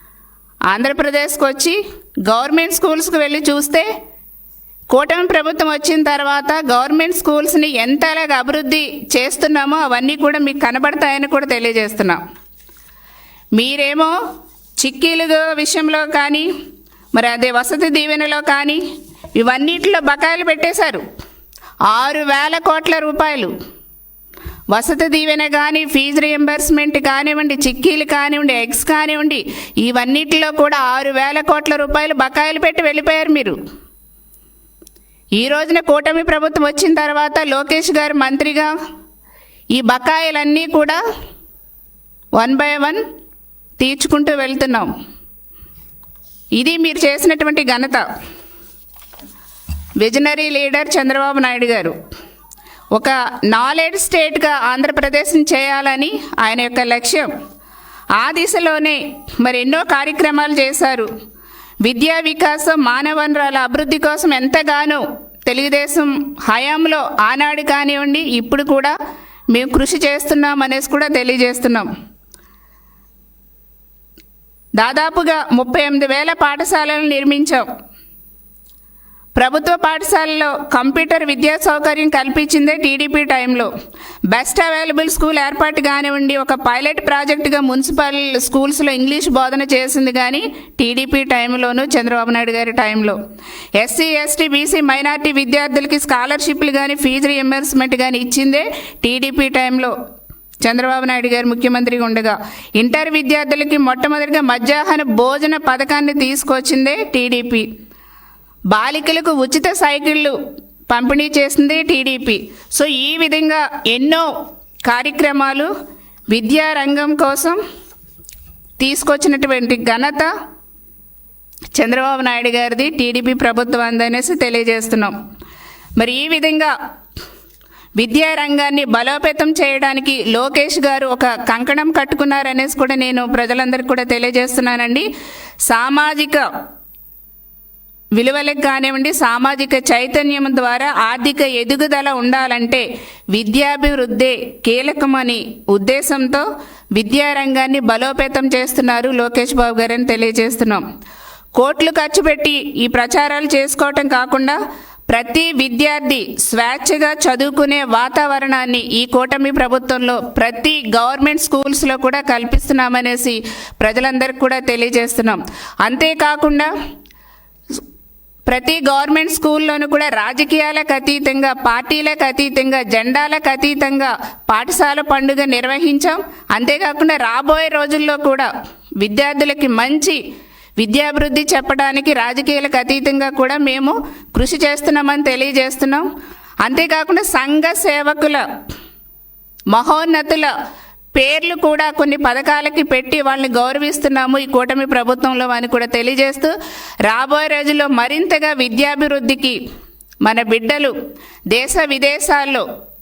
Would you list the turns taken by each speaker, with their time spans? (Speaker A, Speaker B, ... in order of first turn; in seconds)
Speaker A: 0.7-3.9, 4.9-12.2, 13.5-14.1, 14.8-16.5, 17.1-18.8, 19.4-21.0, 21.9-23.5, 24.7-33.6, 35.4-38.7, 39.7-41.0, 42.4-43.0, 43.8-44.9, 46.6-48.1, 50.0-52.0, 52.9-57.3, 58.2-61.1, 61.8-68.9, 69.5-71.9, 74.8-77.7, 79.3-83.7, 84.3-93.2, 93.8-99.9, 100.6-107.7, 108.7-110.3, 110.9-114.3, 114.8-115.7, 116.3-117.6, 118.8-120.3, 121.7-125.2, 126.0-126.7, 128.0-135.1, 135.7-136.5, 138.2-150.8, 151.6-166.7, 168.5-180.2, 180.8-186.1, 186.6-188.4, 189.7-190.5, 191.1-196.5, 197.1-199.6, 200.2-200.9, 201.5-202.6